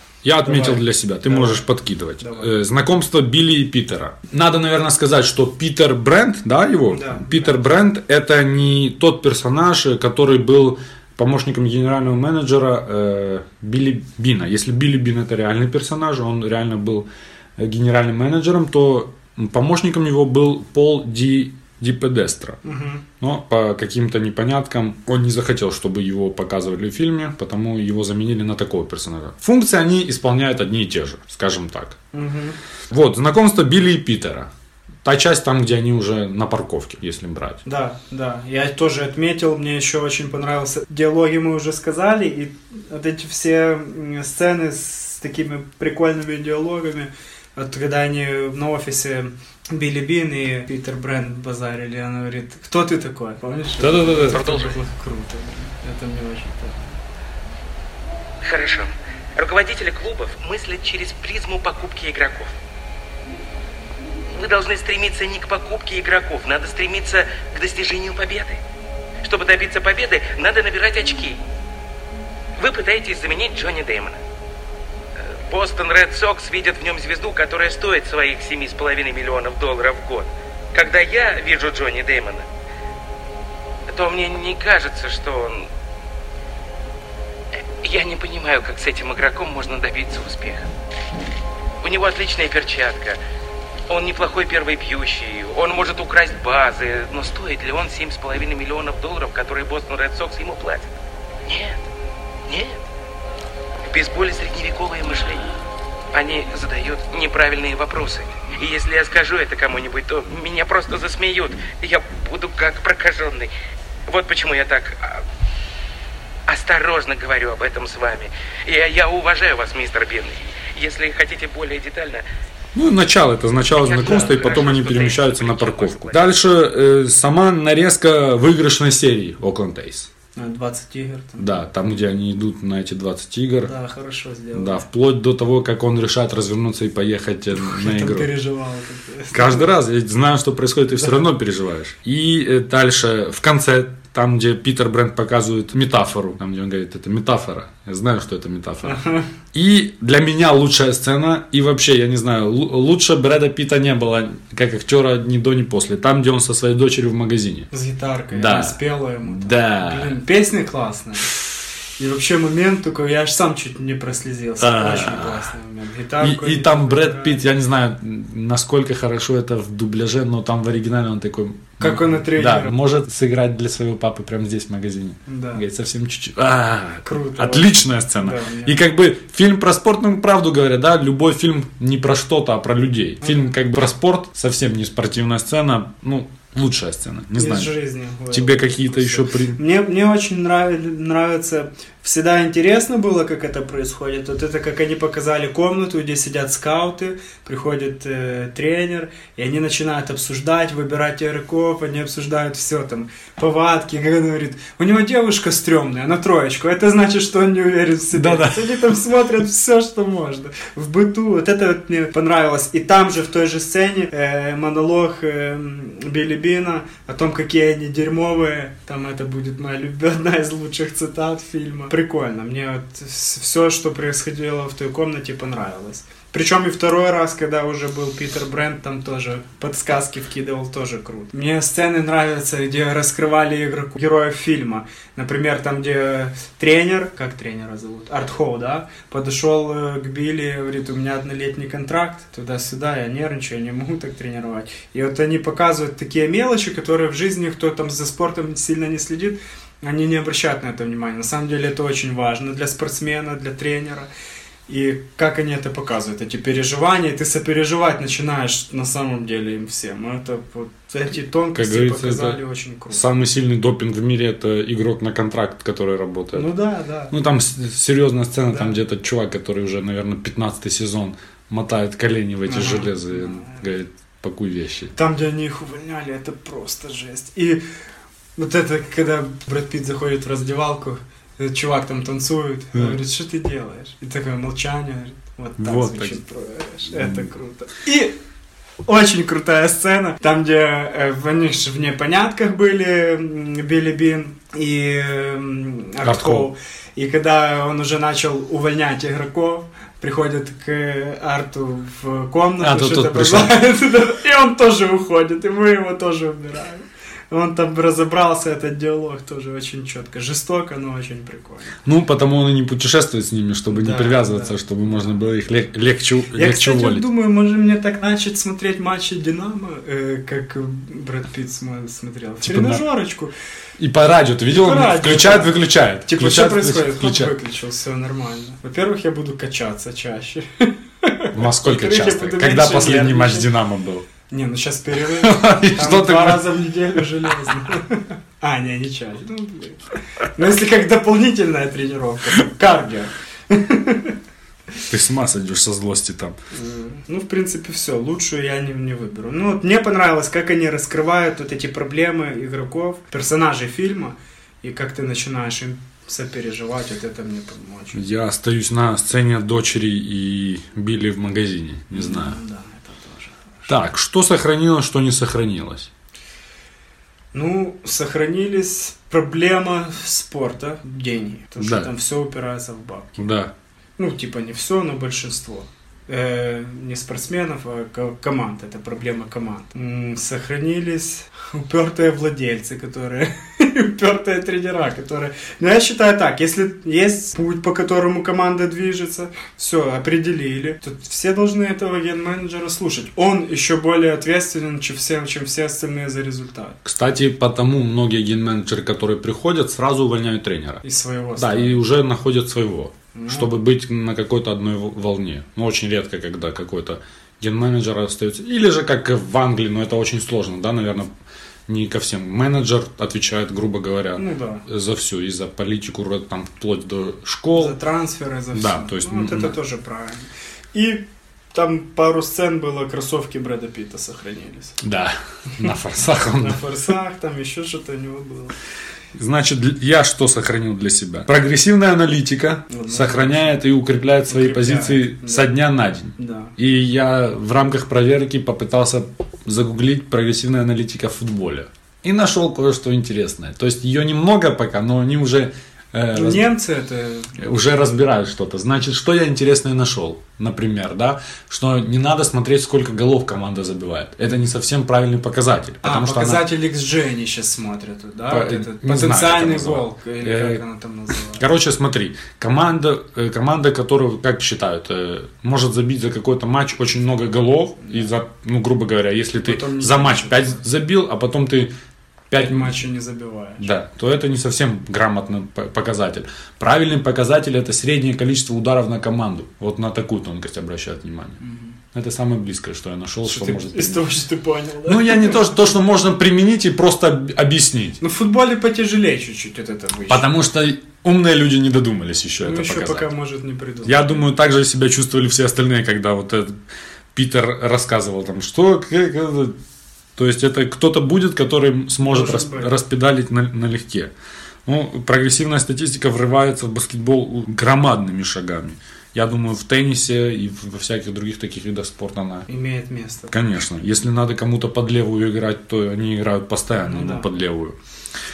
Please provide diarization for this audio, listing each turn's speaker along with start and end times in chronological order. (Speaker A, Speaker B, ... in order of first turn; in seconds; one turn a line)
Speaker A: 0.2-22.6
Speaker B: 0.4-1.6
Speaker B: 2.2-2.5
Speaker B: 6.9-7.8
Speaker B: 22.6-23.1
Speaker A: 23.2-32.0
Speaker B: 32.1-32.6
Speaker A: 32.9-34.5
Speaker A: 35.0-37.6
Speaker B: 37.6-57.0
Speaker A: 53.8-54.5
Speaker C: 54.3-54.7
Speaker C: 58.4-62.5
Speaker C: 64.3-68.6
Speaker C: 69.2-71.4
Speaker C: 72.6-74.2
Speaker C: 75.2-82.5
Speaker C: 83.9-85.7
Speaker C: 87.5-90.7
Speaker C: 91.8-93.2
Speaker C: 93.9-100.9
Speaker C: 101.5-101.8
Speaker C: 102.5-102.8
Speaker C: 103.9-105.5
Speaker C: 106.1-113.5
Speaker C: 114.1-115.2
Speaker C: 116.5-122.3
Speaker A: 122.7-130.1
Speaker C: 123.8-126.4
Speaker B: 124.1-124.7
Speaker B: 130.4-131.6
Speaker A: 131.4-133.7
Speaker B: 133.6-134.8
Speaker A: 134.5-138.3
Speaker B: 137.6-139.7
Speaker A: 139.3-149.0
Speaker B: 148.8-149.3
Speaker A: 149.5-157.7
Speaker B: 157.7-161.4
Speaker A: 158.3-160.2
Speaker B: 162.0-167.4
Speaker A: 164.6-165.5
Speaker A: 166.2-187.7
Speaker B: 171.8-172.8
Speaker B: 175.3-175.7
Speaker B: 177.0-178.8
Speaker B: 183.2-183.6
Speaker B: 187.4-254.1
Speaker A: 188.3-189.6
Speaker A: 208.1-209.0
Speaker B: 254.7-263.1
Speaker A: 261.6-262.4
Speaker A: 262.9-266.5
Speaker B: 266.3-267.1
Speaker A: 267.1-274.9
Speaker B: 268.5-268.8
Speaker B: 272.5-273.6
Speaker B: 274.9-277.6
Speaker B: 278.4-288.1
Speaker A: 285.6-286.2
Speaker A: 286.9-287.3
Speaker B: 288.9-311.8
Speaker A: 296.0-296.5
Speaker A: 302.6-303.6
Speaker A: 311.9-317.1
Speaker B: 313.7-315.2
Speaker B: 316.3-323.3
Speaker A: 322.4-322.9
Speaker A: 323.8-327.4
Speaker B: 324.5-325.6
Speaker B: 326.1-333.5
Speaker A: 331.3-334.1
Speaker B: 334.3-344.2
Speaker A: 335.0-337.5
Speaker A: 344.9-346.4
Speaker B: 346.5-358.0
Speaker A: 357.9-362.4
Speaker B: 361.9-363.9
Speaker A: 363.7-365.9
Speaker B: 367.3-373.3
Speaker A: 371.6-371.9
Speaker A: 373.2-373.5
Speaker B: 374.0-396.8
Speaker A: 396.8-400.8
Speaker B: 400.8-401.8
Speaker A: 401.4-411.1
Speaker B: 403.1-403.5
Speaker A: 411.7-417.8
Speaker B: 414.2-414.6
Speaker B: 417.5-424.8
Speaker A: 418.5-419.6
Speaker A: 424.8-426.6
Speaker B: 426.4-428.6
Speaker A: 429.1-446.5
Speaker B: 432.7-433.6
Speaker B: 434.3-436.5
Speaker B: 446.1-447.8
Speaker A: 447.4-456.5
Speaker B: 455.8-461.4
Speaker A: 458.3-460.6
Speaker A: 461.4-471.7
Speaker B: 467.8-468.1
Speaker B: 469.4-470.6
Speaker A: 472.3-472.8
Speaker B: 472.4-473.7
Speaker A: 473.6-481.4
Speaker B: 481.4-481.8
Speaker A: 481.9-484.1
Speaker B: 483.2-485.5
Speaker A: 484.9-488.0
Speaker B: 488.0-490.3
Speaker A: 490.1-493.1
Speaker B: 492.4-494.2
Speaker A: 493.8-496.6
Speaker A: 497.1-499.6
Speaker A: 500.2-504.1
Speaker B: 502.0-502.8
Speaker A: 504.7-512.5
Speaker B: 512.5-513.4
Speaker A: 513.3-517.8
Speaker B: 516.8-517.3